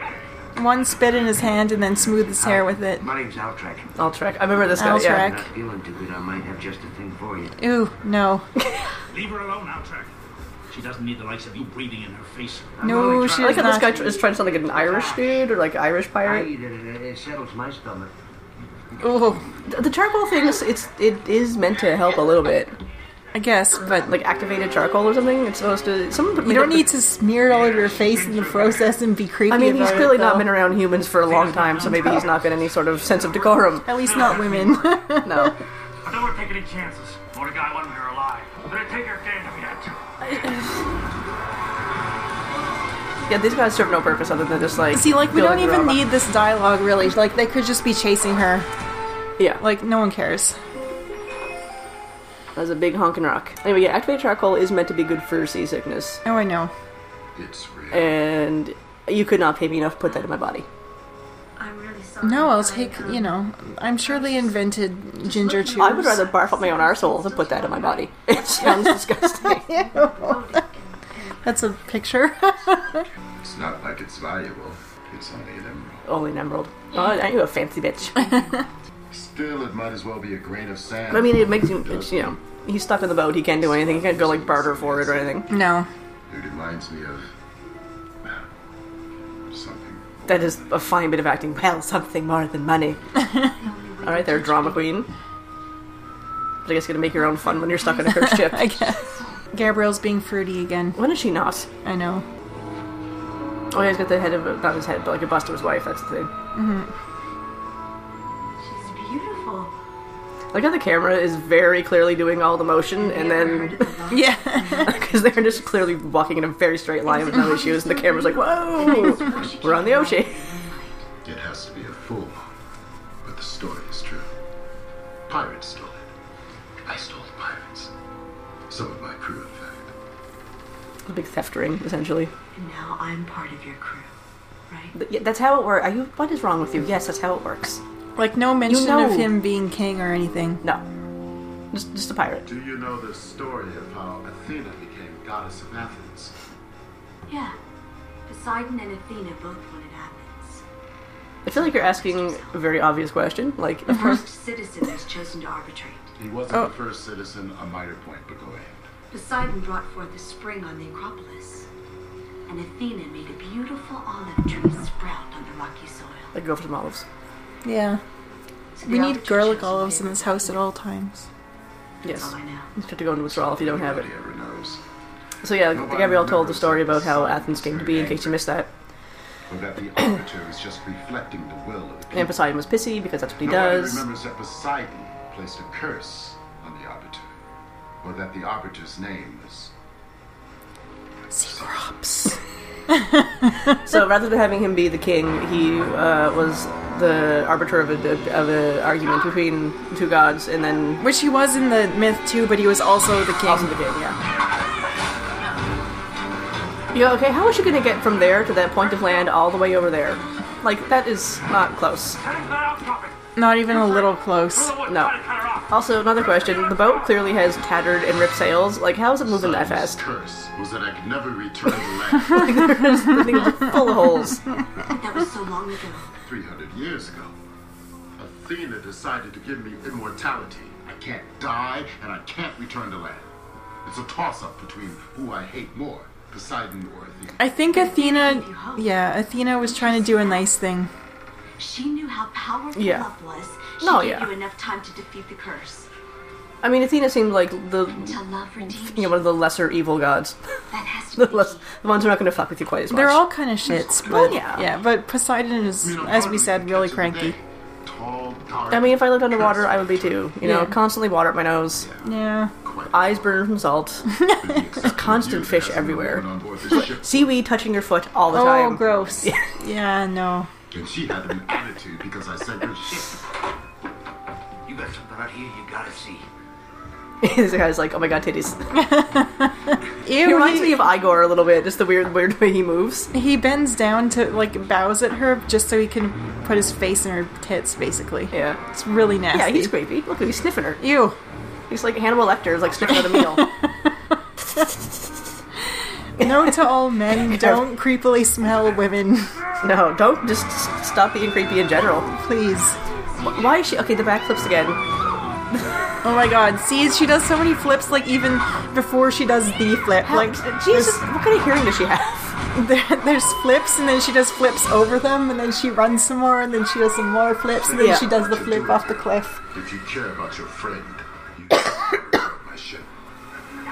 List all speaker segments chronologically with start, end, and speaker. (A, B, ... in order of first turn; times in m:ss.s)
0:00.6-0:03.1 A
0:02.2-0:03.9 B
0:04.0-0:05.3 C
0:04.6-0:07.6 B
0:04.8-0:05.5 A
0:07.6-0:08.4 A
0:09.1-0:10.1 D
0:10.7-0:15.4 D
0:12.8-0:14.2 A
0:13.3-0:16.5 C
0:16.2-0:18.1 B
0:19.0-0:19.4 A
0:19.7-0:22.8 C
0:23.3-0:24.1 A
0:23.9-0:26.9 C
0:26.4-0:30.5 A
0:27.4-0:29.0 D
0:29.5-0:34.0 C
0:31.2-0:35.2 D
0:31.9-0:32.2 A
0:33.8-0:35.5 A
0:35.2-0:35.6 C
0:36.0-0:40.0 D
0:40.2-0:40.8 C
0:43.3-0:46.0 C
0:44.9-0:48.7 A
0:49.6-0:50.6 A
0:52.5-0:56.2 C
0:56.2-0:56.7 A
0:57.3-0:58.2 E
0:57.9-1:00.6 C
1:01.6-1:03.4 F
1:02.2-1:06.2 A
1:04.0-1:12.0 F
1:05.8-1:09.7 C
1:09.4-1:10.6 A
1:11.4-1:13.0 A
1:13.4-1:16.0 E
1:16.0-1:18.4 C
1:16.9-1:17.2 F
1:18.1-1:18.7 F
1:19.1-1:22.4 E
1:21.1-1:25.5 C
1:23.6-1:25.4 E
1:25.5-1:25.9 A
1:26.3-1:27.3 E
1:28.2-1:28.5 E
1:29.5-1:30.8 E
1:30.3-1:33.0 C
1:33.2-1:35.0 F
1:34.0-1:35.1 C
1:36.6-1:38.8 C
1:37.1-1:39.4 F
1:38.1-1:41.0 A
1:41.0-1:41.7 C
1:41.8-1:42.2 A
1:43.7-1:46.3 C
1:46.5-1:46.9 A
1:48.6-1:49.7 F
1:50.5-1:54.0 C
1:52.9-1:56.0 F
1:54.1-1:54.9 A
1:54.7-2:00.4 C
1:57.0-2:01.0 F
2:01.2-2:02.5 E
2:03.2-2:04.3 E
2:05.3-2:06.1 E
2:06.8-2:07.9 E
2:08.7-2:09.9 E
2:11.1-2:12.3 C
2:12.5-2:14.1 F
2:14.7-2:14.9 F
2:14.9-2:17.8 C
2:18.2-2:20.6 A
2:18.7-2:19.3 C
2:21.7-2:22.4 C
2:22.4-2:26.3 E
2:27.3-2:27.6 F
2:28.3-2:30.6 F
2:31.4-2:32.6 F
2:31.4-2:34.1 C
2:33.9-2:36.1 F
2:36.2-2:38.8 E
2:39.1-2:41.7 F
2:42.5-2:46.3 F
2:46.3-2:47.0 C
2:47.6-2:48.0 A
2:48.7-2:50.6 F
2:48.8-2:51.3 A
2:52.0-2:54.1 C
2:52.0-2:52.7 F
2:53.2-2:54.8 E
2:55.4-2:58.7 C
2:55.7-2:58.5 E
2:59.5-3:02.4 E
3:02.1-3:04.0 C
3:03.4-3:07.3 E
3:08.0-3:09.7 E
3:11.3-3:12.3 A
3:11.4-3:12.0 E
3:12.9-3:13.8 A
3:13.8-3:21.0 C
3:21.0-3:23.7 A
3:23.4-3:24.2 C
3:26.9-3:32.2 C
3:32.2-3:35.8 D
3:33.4-3:34.8 A
3:34.9-3:35.1 C
3:35.7-3:40.0 C
3:36.5-3:36.8 D
3:39.2-3:42.7 E
3:42.3-3:44.4 C
3:44.9-3:46.1 F
3:46.2-3:47.3 E
3:48.2-3:53.3 E
3:53.8-3:57.5 E
3:57.4-4:00.9 A
3:57.7-4:00.5 F
4:01.6-4:05.9 F
4:02.7-4:03.1 C
4:03.8-4:04.3 C
4:06.6-4:10.4 C
4:08.0-4:09.2 F
4:10.7-4:11.7 F
4:11.2-4:13.3 C
4:12.9-4:17.4 A
4:13.9-4:14.6 C
4:15.8-4:20.3 E
4:18.7-4:21.8 C
4:20.4-4:20.8 A
4:21.8-4:23.5 E
4:22.0-4:22.5 A
4:22.9-4:24.0 C
4:24.1-4:24.6 A
4:24.3-4:27.3 E
4:24.8-4:29.5 C
4:28.3-4:30.5 A
4:30.7-4:33.2 E
4:34.6-4:36.3 B
4:37.2-4:38.7 C
4:38.7-4:40.8 A
4:40.2-4:43.1 C
4:43.1-4:49.7 A
4:48.3-4:48.6 C
4:49.3-4:50.8 C
4:50.8-4:51.2 A
4:51.7-4:53.5 C
4:52.9-4:53.6 A
4:56.2-4:59.4 A
4:56.2-4:56.5 C
4:57.3-4:57.6 C
4:59.6-5:02.1 C
5:02.1-5:02.8 A
5:03.2-5:04.8 C
5:05.5-5:05.8 C
5:06.0-5:11.0 A
5:10.0-5:12.4 C
5:12.5-5:19.4 A
5:17.5-5:22.9 E
5:17.8-5:18.1 C